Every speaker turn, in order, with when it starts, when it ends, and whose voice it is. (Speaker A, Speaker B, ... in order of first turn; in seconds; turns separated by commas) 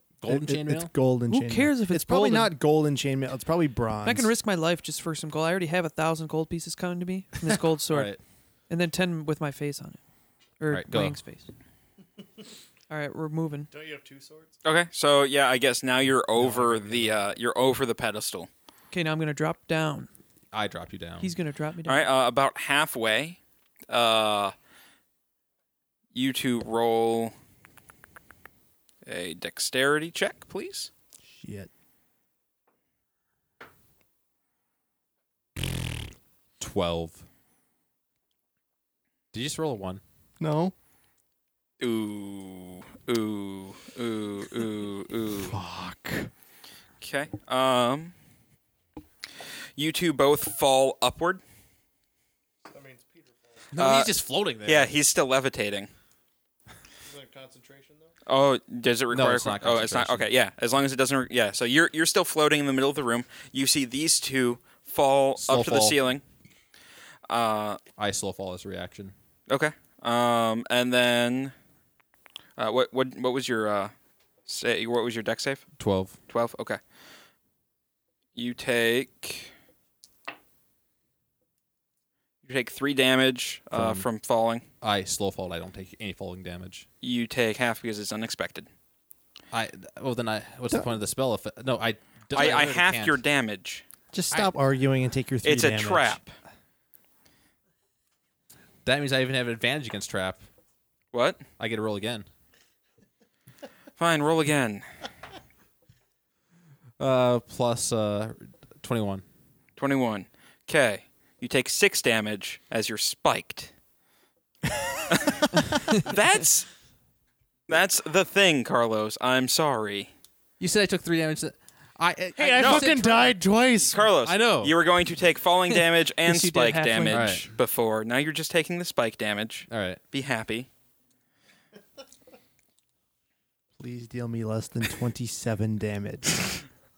Speaker A: 0.2-0.9, Speaker B: 0.3-4.3, Speaker C: 1.3-2.5, Speaker C: 4.0-8.2, Speaker A: 7.9-8.2, Speaker C: 8.7-10.0, Speaker C: 10.6-11.5, Speaker A: 10.7-11.2, Speaker C: 12.9-13.7, Speaker D: 13.7-14.5, Speaker E: 14.6-18.5, Speaker B: 16.4-17.1, Speaker C: 18.9-20.1, Speaker A: 20.5-21.3, Speaker C: 21.2-22.1, Speaker E: 21.9-24.5, Speaker E: 26.1-27.3, Speaker E: 29.1-30.9, Speaker B: 31.3-31.7, Speaker A: 36.6-37.2, Speaker A: 39.3-40.0, Speaker B: 40.4-40.7, Speaker E: 41.8-45.6, Speaker B: 45.3-46.3, Speaker E: 47.0-48.1, Speaker E: 49.8-51.4, Speaker D: 52.6-53.7, Speaker A: 53.7-54.9, Speaker E: 53.8-54.1, Speaker E: 54.6-55.9, Speaker D: 57.0-58.1, Speaker E: 58.3-66.2, Speaker A: 59.1-60.3, Speaker A: 65.4-66.0, Speaker E: 67.3-67.8, Speaker A: 68.0-69.1, Speaker E: 69.5-71.5, Speaker E: 72.6-73.9, Speaker E: 74.5-75.7, Speaker A: 75.8-76.2, Speaker E: 76.3-76.8, Speaker E: 78.3-79.5, Speaker E: 82.4-84.7, Speaker A: 83.7-84.1, Speaker A: 84.8-86.9, Speaker E: 87.0-88.7, Speaker A: 89.5-93.2, Speaker E: 92.3-93.8, Speaker B: 94.1-96.2, Speaker E: 95.4-96.3, Speaker A: 98.8-100.4, Speaker E: 101.1-101.5, Speaker A: 101.6-102.3, Speaker E: 104.0-104.8, Speaker A: 107.0-109.2, Speaker E: 109.8-113.7, Speaker E: 116.0-116.7, Speaker E: 117.7-120.1, Speaker A: 120.6-123.5, Speaker D: 122.4-124.0, Speaker E: 122.6-122.9, Speaker E: 123.9-130.7, Speaker A: 124.2-124.8, Speaker C: 125.7-127.5, Speaker A: 127.1-127.5, Speaker A: 129.7-130.0, Speaker B: 133.8-136.6